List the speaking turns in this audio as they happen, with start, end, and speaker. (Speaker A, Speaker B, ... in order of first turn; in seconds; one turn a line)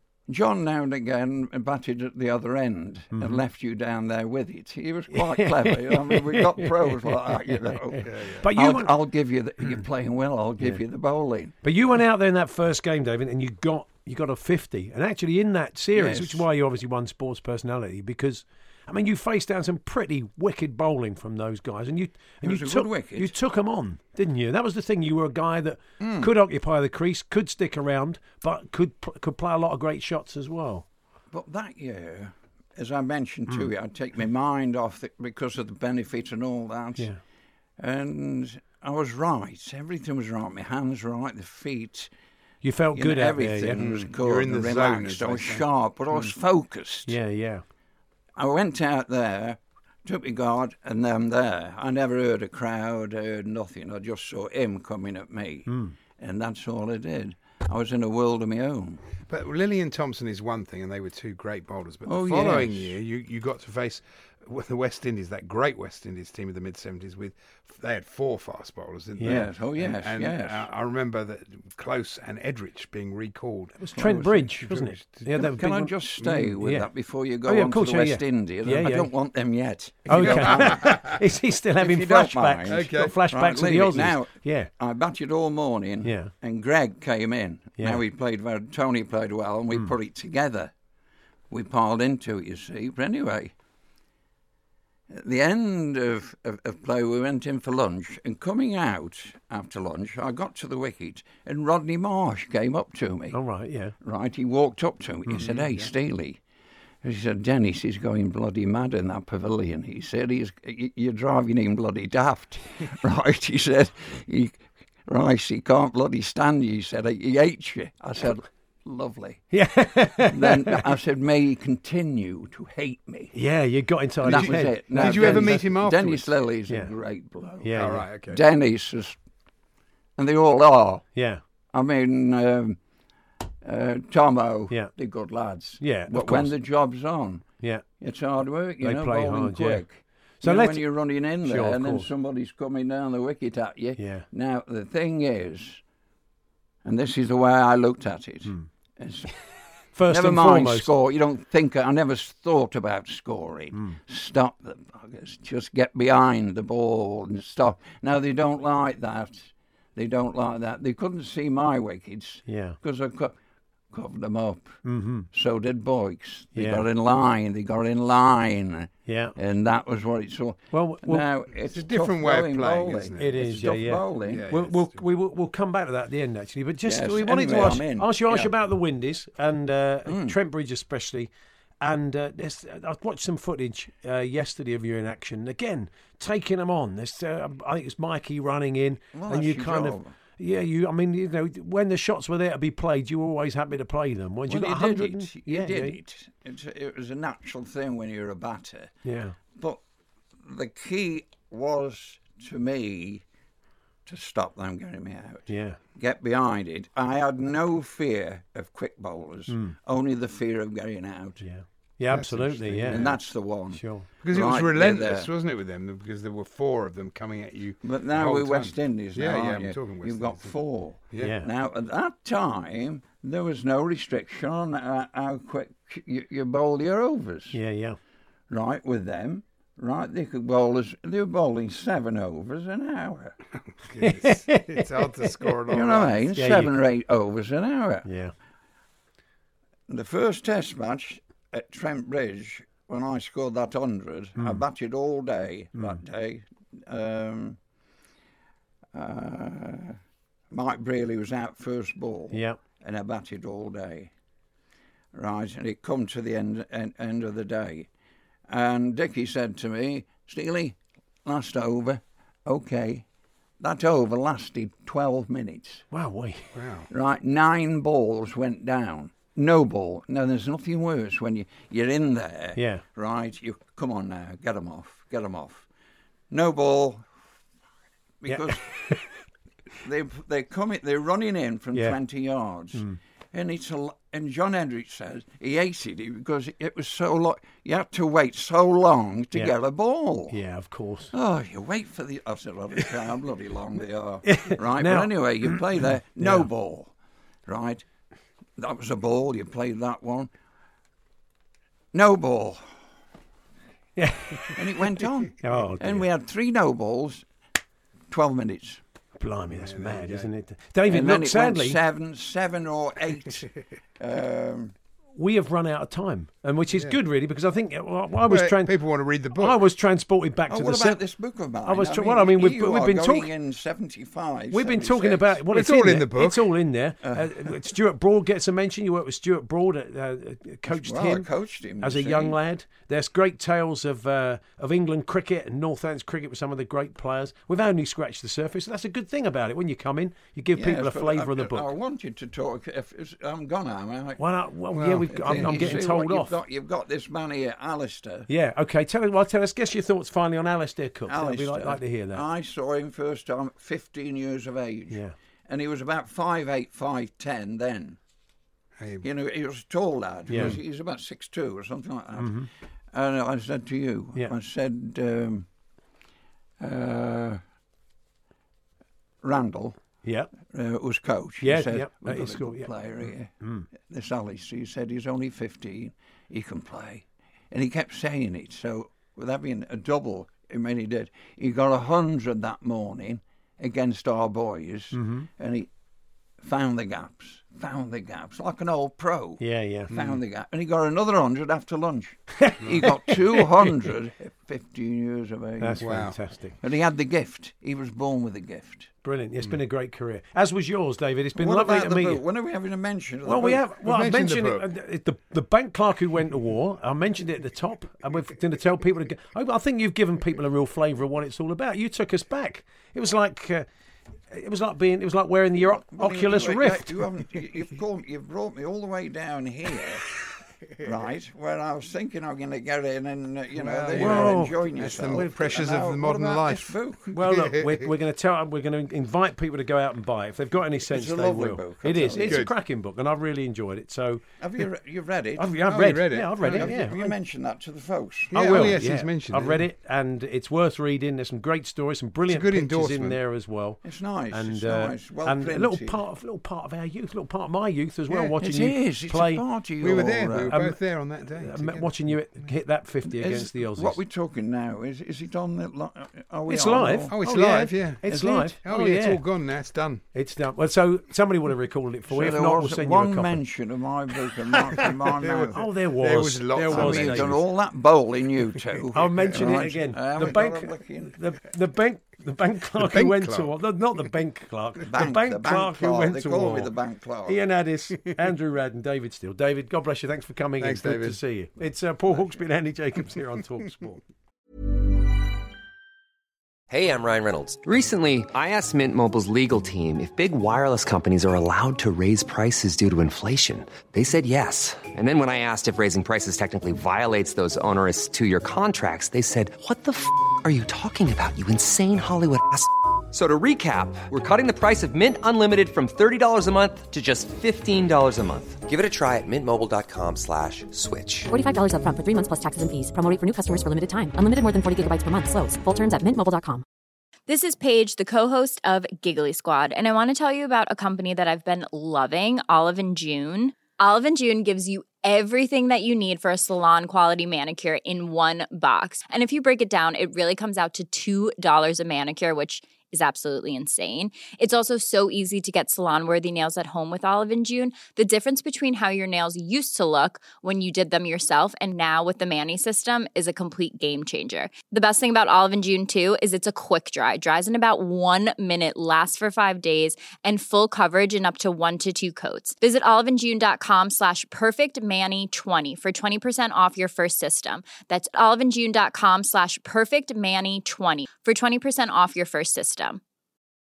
Speaker A: 0.3-11.5
Speaker B: 3.1-3.4
Speaker B: 5.1-8.9
Speaker C: 8.0-8.4
Speaker B: 11.6-30.8
Speaker A: 15.9-16.4
Speaker A: 22.4-23.3
Speaker A: 26.0-26.3
Speaker A: 31.3-37.1
Speaker A: 37.8-42.1
Speaker B: 42.6-43.8
Speaker A: 42.9-47.1
Speaker C: 43.8-45.6
Speaker B: 47.0-47.6
Speaker A: 48.4-59.0
Speaker B: 55.7-55.9
Speaker C: 59.3-75.3
Speaker A: 62.0-62.9
Speaker B: 69.2-69.5
Speaker A: 69.2-70.7
Speaker B: 73.8-76.9
Speaker A: 74.0-74.3
Speaker A: 75.3-81.0
Speaker C: 76.2-76.5
Speaker B: 77.5-79.1
Speaker B: 80.1-84.7
Speaker C: 80.1-81.1
Speaker A: 81.8-90.7
Speaker C: 82.7-83.2
Speaker B: 86.0-86.3
Speaker A: 91.5-93.5
Speaker A: 95.1-103.4
Speaker B: 103.3-103.9
Speaker A: 104.0-106.4
Speaker C: 105.3-105.9
Speaker A: 107.0-119.5
Speaker B: 119.5-120.9
Speaker A: 120.2-123.3
Speaker B: 123.3-125.6
Speaker A: 124.2-129.2
Speaker C: 124.2-126.3
Speaker B: 127.6-128.0
Speaker C: 127.7-128.4
Speaker A: 130.2-131.1
Speaker B: 131.2-131.4
Speaker A: 131.7-132.8
Speaker A: 133.6-137.5
Speaker B: 135.8-136.5
Speaker B: 137.6-137.8
Speaker A: 138.0-145.8
Speaker B: 138.8-139.8
Speaker B: 140.4-140.8
Speaker B: 141.4-142.1
Speaker B: 144.0-144.2
Speaker A: 146.8-149.3
Speaker B: 149.9-150.9
Speaker A: 150.1-163.3
Speaker B: 162.4-162.8
Speaker A: 163.9-174.5
Speaker B: 164.8-165.3
Speaker B: 166.5-166.8
Speaker B: 169.1-169.3
Speaker B: 170.7-171.2
Speaker C: 171.7-175.0
Speaker B: 173.2-181.3
Speaker A: 176.8-178.5
Speaker A: 180.1-180.3
Speaker B: 181.8-196.0
Speaker A: 189.1-190.1
Speaker A: 194.5-198.9
Speaker B: 199.0-199.3
Speaker A: 199.5-199.8
Speaker A: 200.4-203.2
Speaker A: 204.1-211.4
Speaker B: 205.5-205.8
Speaker B: 209.5-209.7
Speaker B: 211.4-213.2
Speaker C: 212.1-213.2
Speaker A: 212.8-215.3
Speaker B: 213.7-214.1
Speaker C: 214.2-220.5
Speaker A: 217.8-227.6
Speaker B: 221.2-221.5
Speaker B: 227.5-228.0
Speaker A: 228.5-233.4
Speaker C: 233.8-236.3
Speaker B: 234.0-235.5
Speaker A: 235.7-238.1
Speaker B: 236.3-236.8
Speaker B: 238.1-238.3
Speaker A: 239.9-247.6
Speaker A: 248.9-250.0
Speaker A: 250.5-254.1
Speaker B: 252.3-252.6
Speaker A: 255.1-257.9
Speaker A: 258.5-263.0
Speaker A: 263.6-265.8
Speaker B: 265.9-266.5
Speaker C: 266.5-266.9
Speaker A: 266.9-275.6
Speaker B: 272.6-272.8
Speaker A: 276.3-277.1
Speaker A: 278.2-278.8
Speaker B: 278.3-279.1
Speaker A: 279.8-290.4
Speaker B: 290.3-291.1
Speaker A: 291.1-296.9
Speaker B: 294.2-295.6
Speaker B: 296.2-296.5
Speaker A: 297.5-297.8
Speaker A: 298.6-300.3
Speaker A: 301.9-302.6
Speaker B: 304.0-304.6
Speaker A: 304.6-307.2
Speaker B: 305.4-306.1
Speaker A: 308.1-308.8
Speaker B: 309.2-311.8
Speaker C: 309.5-310.3
Speaker A: 310.9-314.7
Speaker B: 315.2-318.8
Speaker C: 316.7-317.0
Speaker C: 318.2-319.6
Speaker B: 319.3-321.0
Speaker A: 320.5-325.4
Speaker B: 321.6-323.3
Speaker B: 324.5-331.3
Speaker C: 325.5-326.5
Speaker A: 327.0-327.5
Speaker A: 330.7-332.4
Speaker B: 331.8-341.7
Speaker A: 340.5-344.2
Speaker B: 344.2-346.4
Speaker C: 344.7-345.7
Speaker A: 345.1-348.3
Speaker B: 348.3-352.2
Speaker A: 351.1-358.0
Speaker C: 358.8-359.1
Speaker A: 359.0-365.4
Speaker B: 360.3-360.6
Speaker C: 360.3-360.6
Speaker B: 362.2-362.5
Speaker A: 366.6-367.4
Speaker A: 369.2-369.8
Speaker B: 370.0-370.3
Speaker A: 370.4-385.7
Speaker B: 371.4-372.7
Speaker B: 373.4-373.6
Speaker B: 384.9-385.3
Speaker A: 386.4-396.0
Speaker B: 389.4-389.9
Speaker C: 389.9-390.2
Speaker B: 392.4-393.9
Speaker C: 392.6-392.9
Speaker B: 395.6-396.6
Speaker C: 395.8-396.2
Speaker A: 396.6-398.9
Speaker B: 399.0-402.2
Speaker A: 401.4-403.6
Speaker B: 403.2-413.6
Speaker C: 403.8-404.7
Speaker B: 414.3-416.9
Speaker A: 415.6-420.1
Speaker A: 420.8-427.1
Speaker C: 423.6-427.9
Speaker B: 423.9-425.3
Speaker B: 427.1-434.2
Speaker A: 430.8-432.4
Speaker C: 432.2-432.5
Speaker A: 434.4-435.6
Speaker B: 435.4-437.1
Speaker C: 435.6-436.8
Speaker A: 436.4-438.7
Speaker C: 438.3-439.6
Speaker B: 438.3-449.4
Speaker C: 442.3-443.2
Speaker A: 443.8-446.0
Speaker C: 448.1-448.3
Speaker A: 448.4-450.6
Speaker C: 449.8-452.5
Speaker B: 450.5-454.0
Speaker A: 453.1-457.2
Speaker B: 456.5-459.2
Speaker C: 457.1-460.0
Speaker A: 458.1-458.5
Speaker B: 460.1-463.4
Speaker A: 462.1-465.6
Speaker C: 465.2-467.4
Speaker B: 465.5-467.4
Speaker A: 466.7-471.2
Speaker B: 468.9-476.7
Speaker C: 472.8-473.5
Speaker A: 474.9-477.4
Speaker B: 477.2-484.0
Speaker C: 480.6-481.2
Speaker D: 486.7-511.3
Speaker E: 511.3-516.6
Speaker F: 517.3-563.0